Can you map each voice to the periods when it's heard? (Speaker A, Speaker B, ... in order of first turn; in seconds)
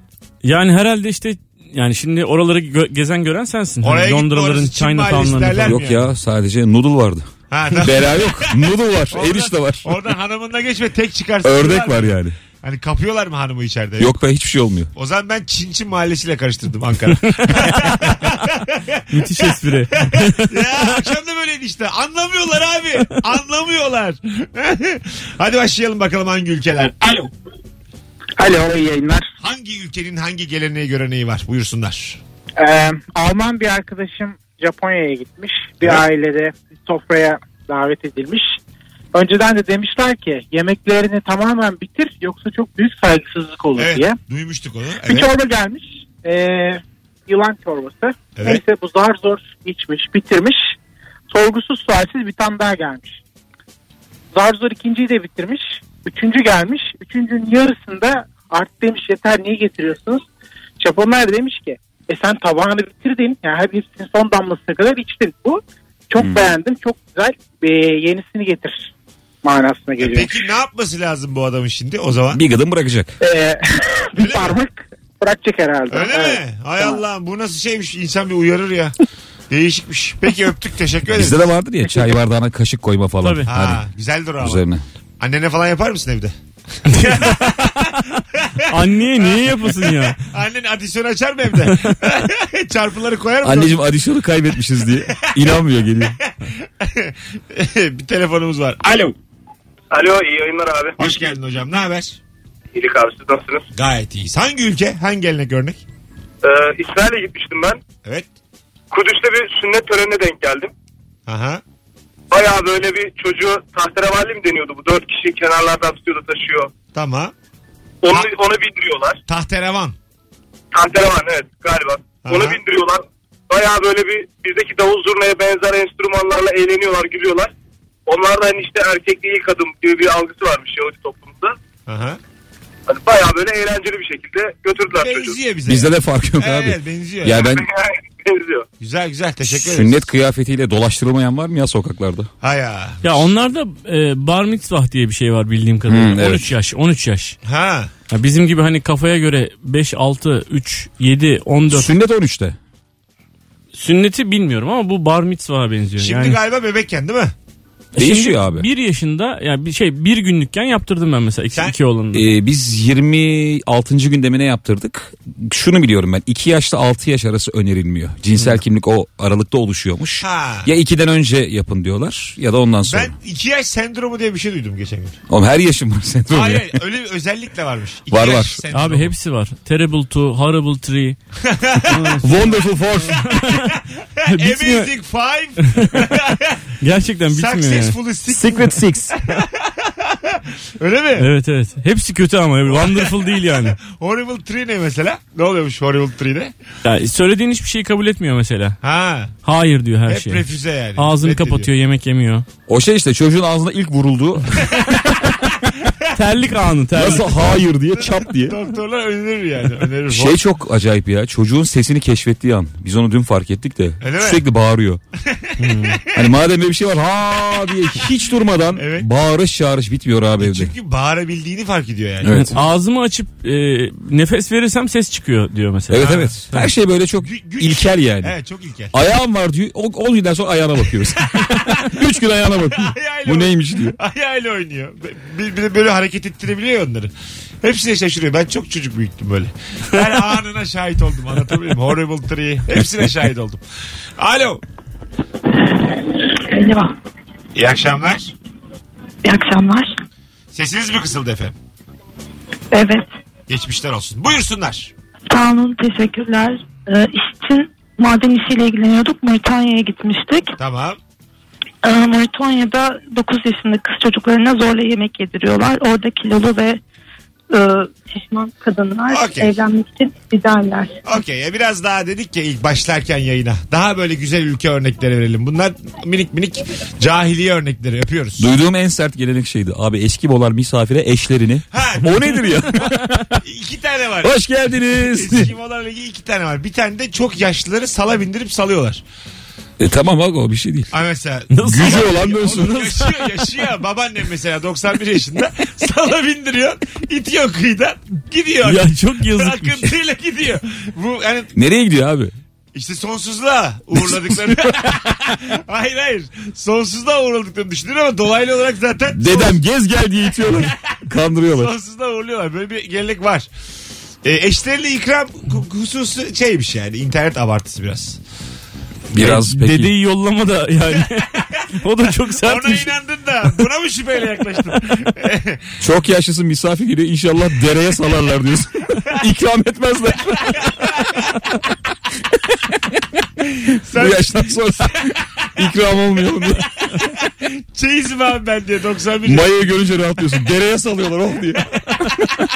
Speaker A: 0.4-5.8, 17.4-18.4, 19.1-21.0, 83.2-83.5, 86.9-88.1, 88.7-90.2, 91.6-92.0, 143.0-147.4, 148.1-151.9, 153.7-156.4, 158.0-162.3, 178.7-181.2, 181.9-183.7, 184.3-184.9, 185.7-186.1, 186.8-188.9, 191.2-193.8, 196.8-198.8, 199.4-200.4, 201.0-202.4, 206.1-207.6, 215.6-216.0, 222.3-226.7, 291.5-293.4, 298.6-299.9, 319.2-322.9
Speaker B: 3.8-6.1, 7.5-8.6, 9.1-14.1, 14.9-19.5, 20.0-27.3, 29.4-32.2, 43.8-45.3, 48.4-48.6, 70.0-72.4, 74.2-74.6, 75.9-78.9, 79.5-81.5, 83.5-84.6, 85.2-93.8, 96.8-99.2, 101.0-102.2, 103.8-105.8, 111.3-111.6, 116.9-117.3, 119.3-120.0, 122.2-122.6, 131.9-132.2, 134.9-137.5, 138.8-140.0, 142.4-143.0, 147.4-147.9, 156.0-157.3, 170.2-170.7, 172.9-175.2, 176.3-179.1, 181.5-182.2, 183.3-186.7, 187.3-188.7, 189.6-191.3, 192.7-196.5, 198.8-199.3, 200.1-201.7, 208.4-210.4, 214.0-214.4, 215.3-216.2, 218.8-219.1, 220.4-222.4, 225.9-226.3, 227.2-228.9, 232.8-243.6, 244.2-244.6, 247.6-248.3, 250.5-251.6, 253.5-254.9, 260.6-261.0, 269.1-269.5, 271.1-278.5, 281.7-282.6, 283.4-284.3, 285.0-289.0, 290.9-301.5, 302.7-309.6, 310.5-310.7, 311.5-313.5, 314.2-318.2, 322.4-325.7, 330.6-330.9, 333.6-334.6, 337.4-339.5
Speaker C: 5.6-10.0, 11.4-12.4, 14.0-14.9, 66.2-66.5, 72.3-73.2, 81.1-83.8, 84.4-84.8, 93.4-96.2, 135.7-137.7, 139.4-142.3, 145.9-146.5, 151.7-152.6, 157.9-158.7, 162.1-173.1, 175.3-176.8, 178.1-178.6, 182.2-183.4, 188.4-189.2, 202.7-204.8, 206.9-208.6, 210.1-215.0, 216.1-220.7, 222.2-222.6, 225.9-228.3, 228.9-234.0, 278.4-283.3, 284.2-285.5, 289.8-290.9, 291.6-292.9, 301.6-302.3, 304.0-304.6, 309.1-311.7, 319.1-319.9, 325.8-331.0, 333.9-336.8, 339.2-342.4
Speaker D: 32.6-38.6, 39.1-44.2, 45.0-50.8, 51.3-53.2, 54.3-60.2, 60.8-68.9, 69.4-70.4, 73.2-77.0
Speaker E: 99.9-101.0, 102.7-103.7, 106.4-107.8, 108.9-110.7, 112.3-116.7, 118.0-119.2, 120.7-127.5, 128.1-131.6, 132.9-135.4, 137.5-138.7
Speaker F: 246.4-246.9, 249.2-249.9, 252.7-253.1, 255.3-260.5, 261.8-266.8, 267.5-271.0